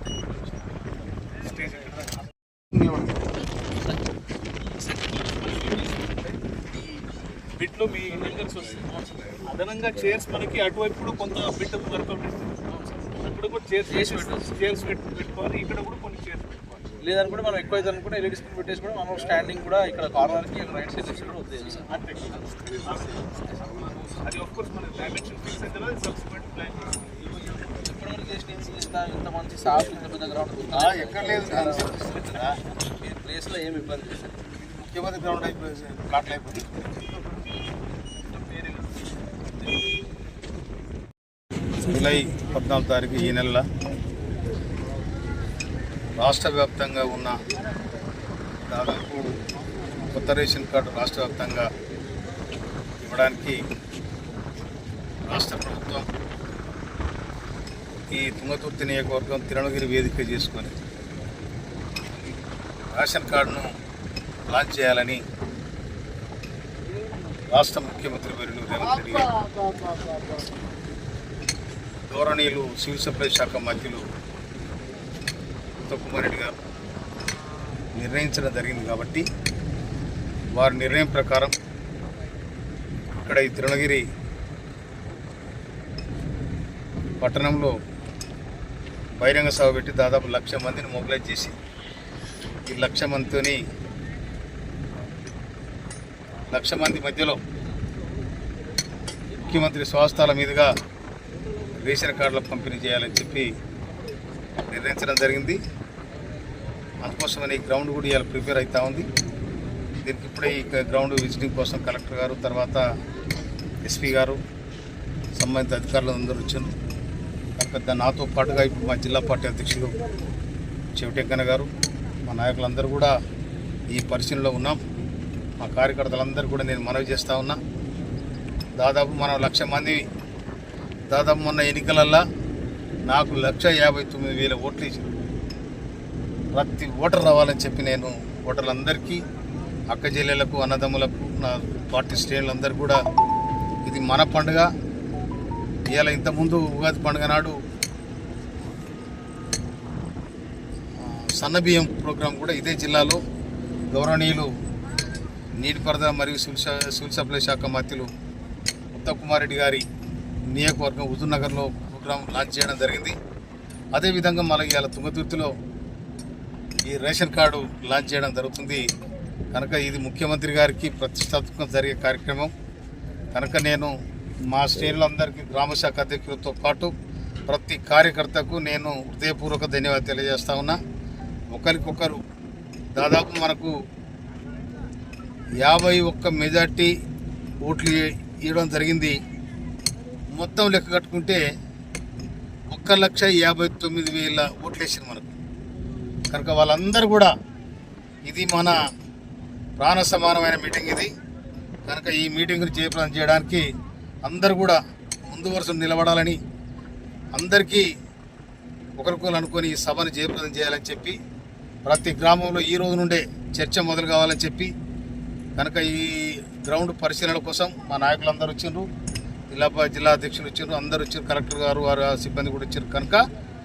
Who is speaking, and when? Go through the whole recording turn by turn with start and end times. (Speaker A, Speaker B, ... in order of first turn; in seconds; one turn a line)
Speaker A: 1.4-2.1
Speaker B: 2.8-3.1
Speaker A: 7.6-8.9
Speaker C: 8.6-9.3
Speaker A: 9.4-16.8
Speaker C: 13.9-14.5
Speaker C: 17.0-22.3
Speaker A: 21.8-23.3
Speaker A: 24.0-27.8
Speaker C: 27.8-34.4
Speaker B: 30.7-32.6
Speaker B: 34.7-36.9
Speaker C: 38.3-38.9
Speaker B: 41.8-43.7
Speaker B: 46.2-47.4
Speaker B: 48.7-49.4
Speaker B: 50.0-51.7
Speaker B: 53.0-53.6
Speaker B: 55.3-56.1
Speaker B: 58.1-60.8
Speaker B: 62.8-63.7
Speaker B: 64.5-65.2
Speaker B: 67.5-69.7
Speaker B: 72.1-74.0
Speaker B: 75.8-76.5
Speaker B: 77.9-79.3
Speaker B: 80.5-81.5
Speaker B: 83.2-84.0
Speaker B: 87.2-87.7
Speaker B: 89.2-91.5
Speaker B: 92.7-93.6
Speaker B: 96.5-97.4
Speaker B: 99.4-100.7
Speaker B: 101.8-103.5
Speaker B: 104.7-105.6
Speaker B: 107.0-109.1
Speaker B: 110.0-112.8
Speaker B: 113.8-114.4
Speaker B: 115.3-116.7
Speaker B: 117.6-120.0
Speaker B: 121.0-121.7
Speaker B: 122.2-123.2
Speaker B: 123.9-124.8
Speaker B: 125.6-127.6
Speaker B: 128.8-130.0
Speaker B: 131.1-132.2
Speaker B: 133.1-135.2
Speaker B: 136.5-139.2
Speaker B: 139.9-143.0
Speaker B: 143.9-144.7
Speaker B: 145.9-147.6
Speaker B: 151.0-153.2
Speaker B: 153.9-154.5
Speaker B: 155.6-158.1
Speaker B: 158.9-159.8
Speaker B: 160.5-163.2
Speaker B: 163.9-165.5
Speaker B: 166.8-168.8
Speaker B: 169.5-172.5
Speaker B: 173.3-173.9
Speaker B: 174.5-176.9
Speaker B: 177.5-180.8
Speaker B: 181.5-182.2
Speaker B: 182.9-183.7
Speaker B: 185.6-186.9
Speaker B: 187.6-189.2
Speaker B: 190.3-191.4
Speaker B: 192.7-195.3
Speaker B: 196.3-197.3
Speaker B: 198.2-198.8
Speaker B: 199.8-201.1
Speaker B: 201.9-203.7
Speaker B: 204.3-206.4
Speaker B: 207.3-207.9
Speaker B: 209.0-211.2
Speaker B: 211.8-214.7
Speaker B: 215.6-218.9
Speaker B: 219.5-223.2